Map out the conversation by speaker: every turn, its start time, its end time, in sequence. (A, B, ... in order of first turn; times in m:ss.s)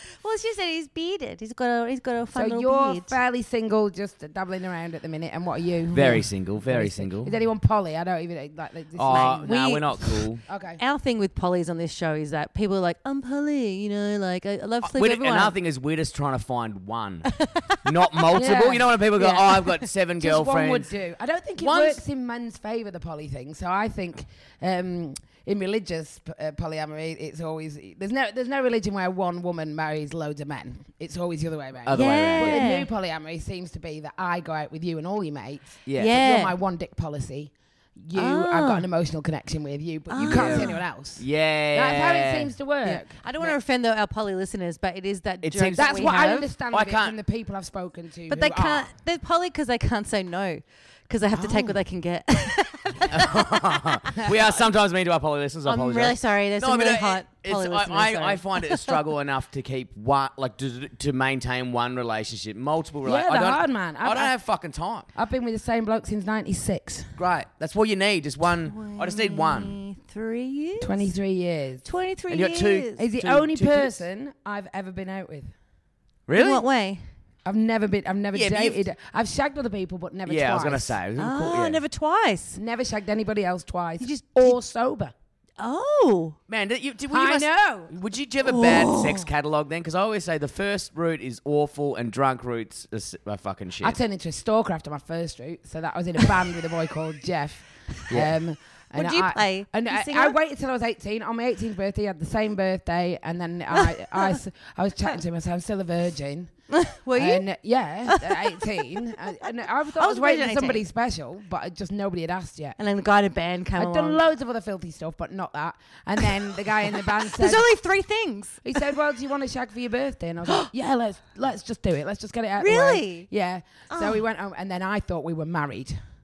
0:00.2-0:03.2 A
0:02.3-0:09.5 B
0:05.9-0:07.3 C
0:08.9-0:10.4 C
0:09.1-0:10.2 A
0:10.5-0:10.8 B
0:10.8-0:15.5 A
0:14.8-0:17.3 C
0:17.3-0:17.6 A
0:17.8-0:20.9 C
0:18.3-0:19.6 B
0:19.2-0:19.7 A
0:20.2-0:37.5 B
0:21.6-0:22.0 C
0:31.8-0:32.6 C
0:31.9-0:32.9 A
0:35.8-0:36.1 C
0:36.0-0:36.5 A
0:38.0-0:43.5 B
0:38.1-0:38.8 A
0:40.1-0:40.8 A
0:40.2-0:42.5 C
0:42.8-0:46.5 A
0:45.4-0:45.9 C
0:45.7-0:48.9 B
0:46.7-0:47.1 C
0:48.3-0:53.5 A
0:53.1-1:05.1 C
0:54.1-0:54.6 A
0:55.6-0:58.9 A
1:03.0-1:04.3 B
1:05.1-1:07.2 B
1:07.2-1:09.7 C
1:08.7-1:11.1 A
1:10.8-1:11.8 B
1:11.8-1:13.0 A
1:12.3-1:14.0 C
1:13.0-1:15.5 B
1:16.3-1:16.6 C
1:16.3-1:17.0 A
1:17.4-1:21.0 B
1:18.3-1:18.8 C
1:20.2-1:21.8 C
1:21.2-1:22.6 A
1:22.5-1:25.1 B
1:24.0-1:24.5 A
1:25.6-1:26.4 A
1:26.5-1:34.0 C
1:27.1-1:27.9 B
1:28.4-1:29.2 A
1:33.8-1:46.5 B
1:38.1-1:38.3 C
1:38.9-1:40.4 A
1:43.7-1:44.4 A
1:46.7-1:47.4 A
1:47.1-1:52.8 B
1:48.0-1:50.8 A
1:52.8-1:54.2 A
1:53.8-1:57.6 B
1:56.2-1:58.8 A
1:58.6-2:06.0 B
2:02.6-2:03.3 A
2:03.9-2:04.2 A